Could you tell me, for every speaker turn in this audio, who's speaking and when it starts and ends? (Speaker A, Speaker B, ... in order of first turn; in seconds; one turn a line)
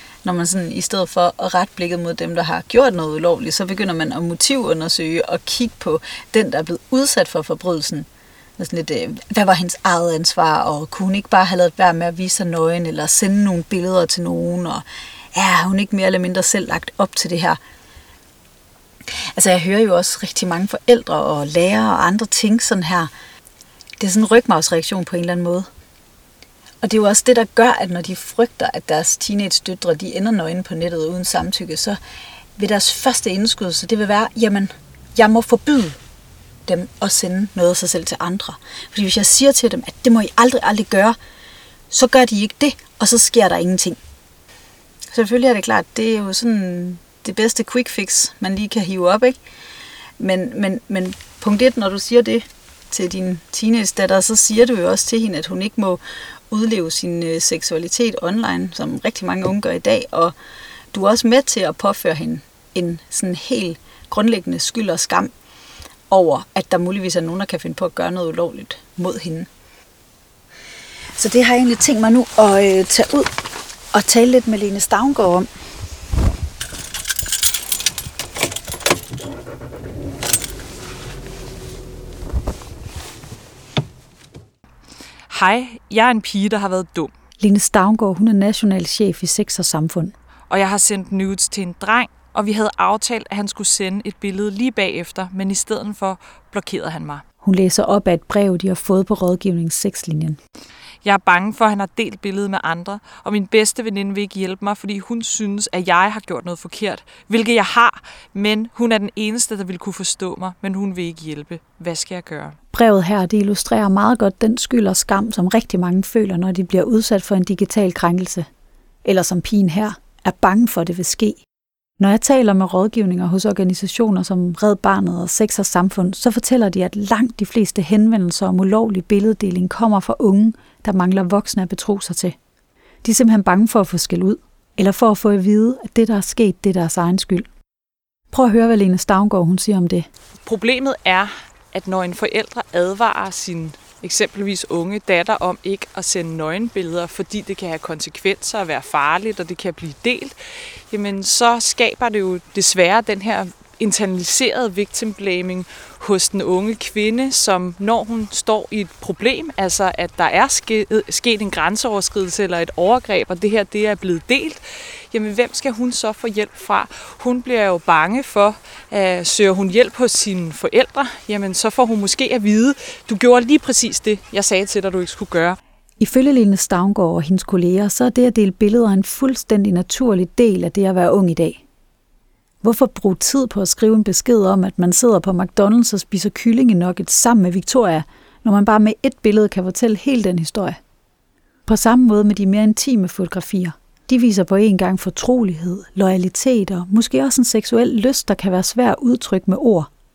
Speaker A: 0.2-8.1
Speaker A: 8.6-17.6
Speaker A: 19.3-23.1
Speaker A: 24.0-25.7
Speaker A: 26.8-32.0
Speaker A: 32.6-36.0
Speaker A: 36.6-41.2
Speaker A: 41.9-44.0
Speaker A: 45.1-49.4
Speaker A: 50.2-60.3
Speaker A: 60.9-65.3
Speaker A: 66.1-69.5
Speaker A: 71.2-73.3
Speaker A: 73.9-75.5
Speaker B: 85.3-87.1
Speaker C: 87.4-90.1
Speaker B: 90.5-97.2
Speaker C: 97.4-100.4
Speaker B: 101.0-112.6
Speaker C: 112.7-118.5
Speaker C: 119.0-121.4
Speaker C: 122.0-132.3
Speaker C: 133.0-137.5
Speaker C: 138.3-140.1
Speaker B: 140.4-150.3
Speaker B: 150.9-175.6
Speaker C: 176.0-181.6
Speaker C: 182.6-190.8
Speaker C: 191.7-199.9